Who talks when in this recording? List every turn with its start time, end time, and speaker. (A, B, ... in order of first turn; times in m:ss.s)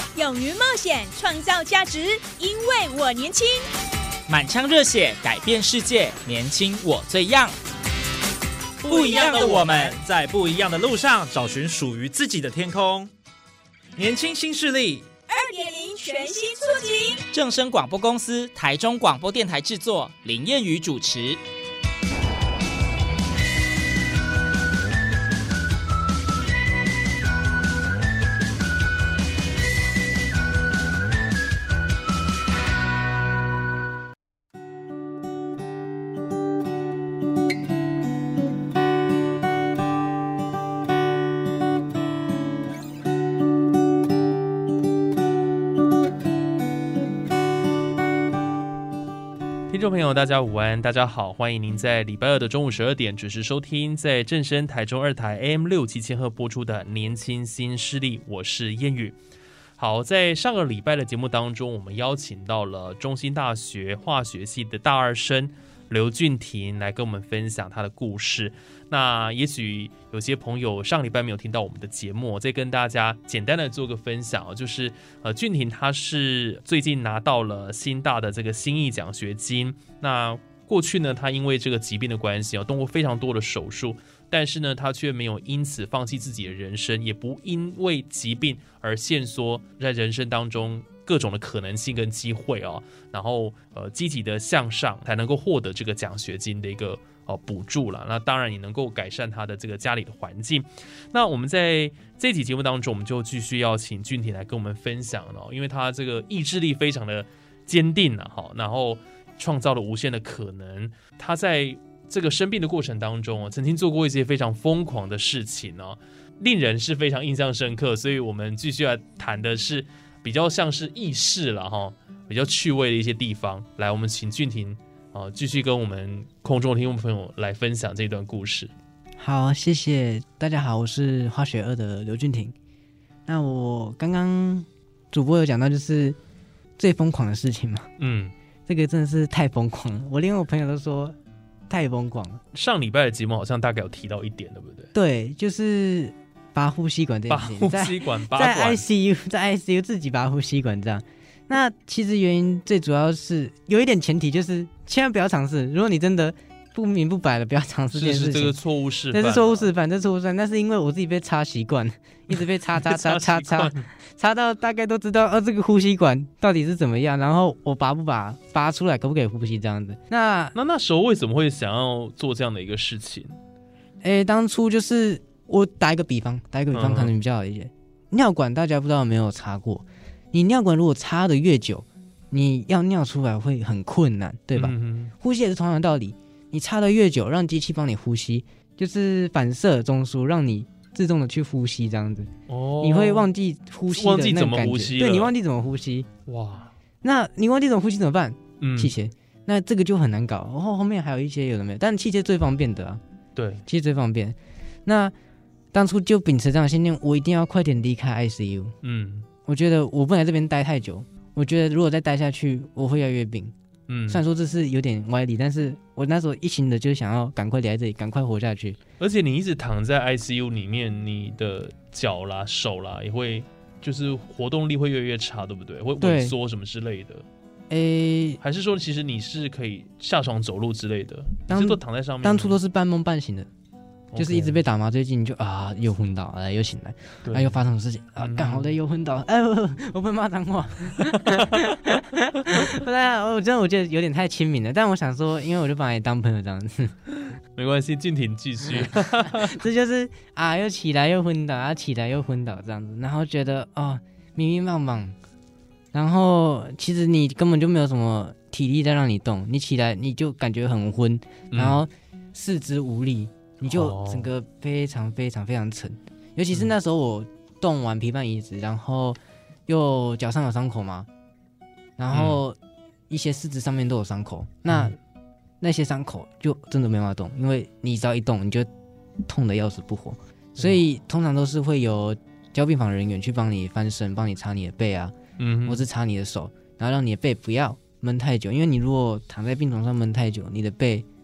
0:00.2-0:03.7 A
0:04.3-0:07.6 B
0:08.8-0:13.1 C
0:08.9-0:10.0 B
0:14.0-0:15.1 C
0:15.3-0:17.2 A
0:17.3-0:21.4 B
0:49.7-0:59.2 D
0:59.8-2:08.7 D
2:09.2-2:12.6 E
2:13.3-2:16.2 E
2:16.8-2:17.9 E
2:18.0-2:18.3 D
2:18.7-2:21.2 E
2:21.7-2:22.4 E
2:22.5-2:24.9 D
2:24.9-2:38.6 E
2:27.3-2:28.8 D
2:37.9-2:39.7 D
2:39.1-2:50.6 E
2:42.8-2:43.9 D
2:50.6-2:53.4 D
2:54.0-3:16.1 E
2:56.7-2:57.1 D
3:04.6-3:05.1 D
3:12.5-3:13.3 D
3:13.9-3:15.3 D
3:16.3-3:16.7 D
3:17.0-3:23.0 E
3:18.6-3:18.9 D
3:23.4-3:23.6 D
3:23.7-3:25.1 E
3:25.7-3:28.8 E
3:28.8-3:29.3 D
3:29.5-3:33.5 E
3:33.9-3:34.2 D
3:34.1-3:38.8 E
3:39.0-3:47.3 D
3:46.0-3:46.4 E
3:47.7-3:48.4 E
3:48.4-3:52.6 D
3:51.5-3:53.5 E
3:54.1-3:54.6 D
3:54.2-4:07.0 E
3:57.2-3:57.6 D
3:58.2-3:58.8 D
4:01.0-4:01.6 D
4:07.3-4:09.6 D
4:08.7-4:15.2 E
4:15.9-4:31.1 E
4:21.5-4:21.8 D
4:23.6-4:24.3 D
4:32.0-4:32.6 E
4:32.1-4:32.4 D
4:33.1-4:35.0 E
4:34.7-4:35.0 D
4:35.6-4:38.7 E
4:39.3-4:45.1 E
4:40.6-4:40.8 D
4:45.4-4:45.9 D
4:45.7-4:51.1 E